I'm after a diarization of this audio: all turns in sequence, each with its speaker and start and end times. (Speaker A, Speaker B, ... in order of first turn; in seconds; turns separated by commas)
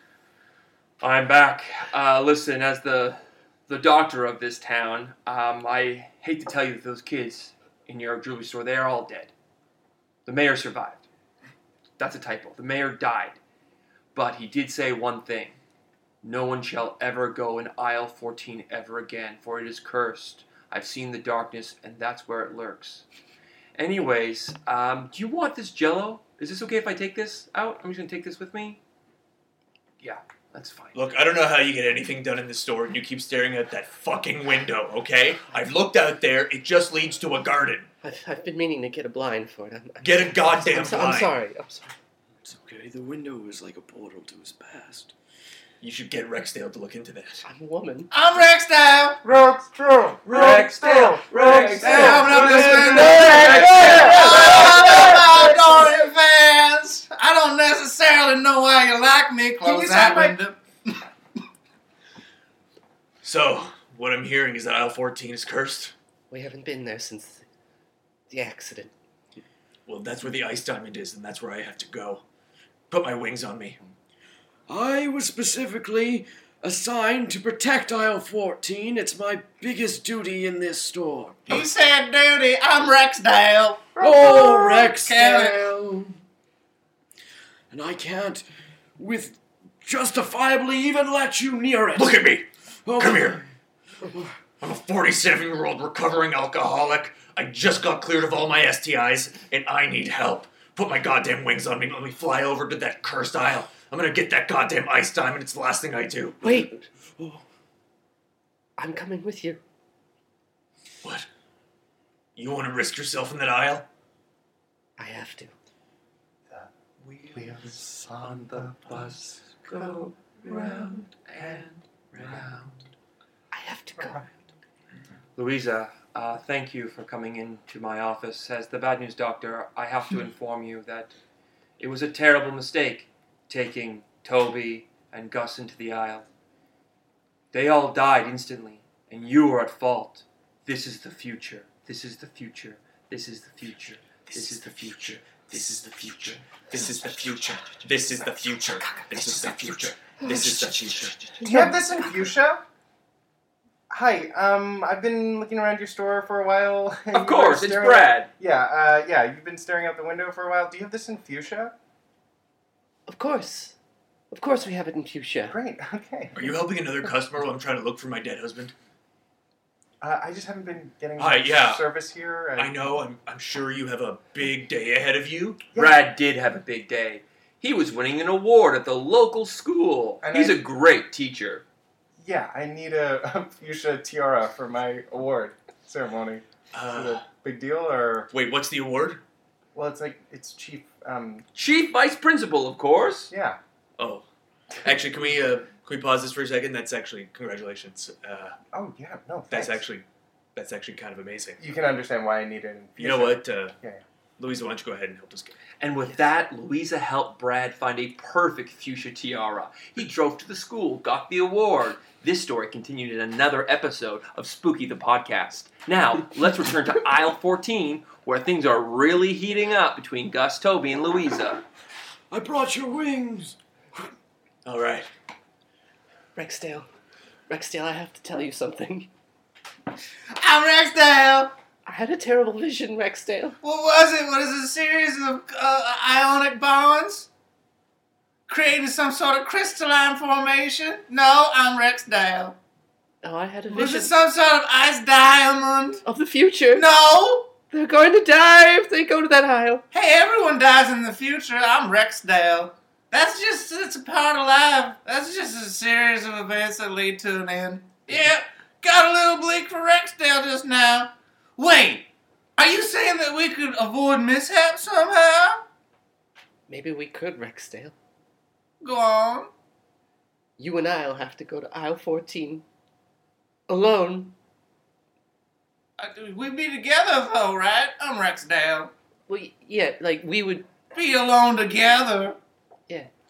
Speaker A: 1.0-9.3, Speaker A: 10.2-11.0, Speaker A: 12.0-13.4, Speaker A: 14.1-15.6, Speaker A: 16.2-23.0, Speaker A: 23.7-28.8, Speaker A: 30.0-31.0, Speaker B: 30.9-37.9, Speaker C: 38.0-41.9, Speaker B: 40.0-41.3, Speaker D: 42.4-45.1, Speaker B: 45.8-47.4, Speaker C: 47.4-48.1, Speaker E: 48.1-49.2, Speaker F: 49.2-56.0, Speaker A: 50.2-54.5, Speaker B: 50.3-52.2, Speaker E: 51.8-61.0, Speaker C: 51.9-54.5, Speaker F: 59.6-60.4, Speaker B: 63.2-65.9, Speaker C: 66.3-67.4, Speaker C: 68.3-68.9, Speaker B: 69.8-72.2, Speaker B: 72.9-73.8, Speaker D: 74.7-81.6, Speaker E: 81.5-85.6, Speaker D: 84.0-86.1, Speaker D: 87.7-88.4, Speaker D: 89.0-92.2, Speaker B: 91.9-93.4, Speaker D: 92.8-93.4, Speaker B: 94.6-106.4, Speaker C: 106.4-106.7, Speaker D: 107.2-107.4, Speaker C: 108.8-109.6, Speaker B: 112.3-113.9, Speaker C: 115.0-115.5, Speaker F: 117.3-119.9, Speaker A: 118.2-122.7, Speaker F: 120.5-120.9, Speaker C: 123.5-124.3, Speaker A: 125.3-131.1, Speaker A: 131.8-136.2, Speaker A: 137.5-146.4, Speaker B: 146.7-151.2, Speaker C: 151.4-152.3, Speaker F: 151.4-152.6, Speaker F: 153.9-161.7, Speaker A: 157.1-158.3, Speaker C: 163.1-163.8, Speaker C: 164.3-165.6, Speaker F: 165.5-166.4, Speaker B: 166.3-168.7, Speaker F: 170.0-172.8, Speaker B: 171.2-171.8, Speaker B: 172.6-175.7, Speaker F: 175.7-176.0, Speaker A: 175.7-181.6, Speaker F: 180.2-180.6, Speaker F: 182.2-188.3, Speaker B: 186.7-187.2, Speaker B: 188.3-189.2, Speaker F: 189.7-191.4, Speaker A: 191.5-193.3, Speaker F: 193.3-193.6, Speaker B: 194.0-194.2, Speaker B: 194.8-198.6, Speaker F: 198.7-199.8, Speaker B: 199.5-201.6, Speaker F: 201.6-204.0, Speaker B: 203.0-203.8, Speaker B: 204.4-205.6, Speaker A: 205.8-221.6, Speaker D: 222.3-223.6, Speaker B: 224.6-225.1, Speaker C: 226.3-226.9, Speaker C: 227.5-229.1, Speaker E: 230.4-231.5, Speaker C: 231.8-233.6, Speaker E: 233.6-237.3, Speaker E: 238.5-242.6, Speaker C: 243.2-244.1, Speaker E: 243.7-246.0, Speaker C: 246.0-246.9, Speaker E: 246.7-247.5, Speaker C: 247.7-249.8, Speaker E: 249.9-265.6, Speaker C: 266.7-267.9, Speaker E: 268.8-269.5, Speaker C: 270.6-272.6, Speaker C: 273.7-274.3, Speaker E: 276.0-278.9, Speaker C: 279.3-280.7, Speaker E: 280.9-282.4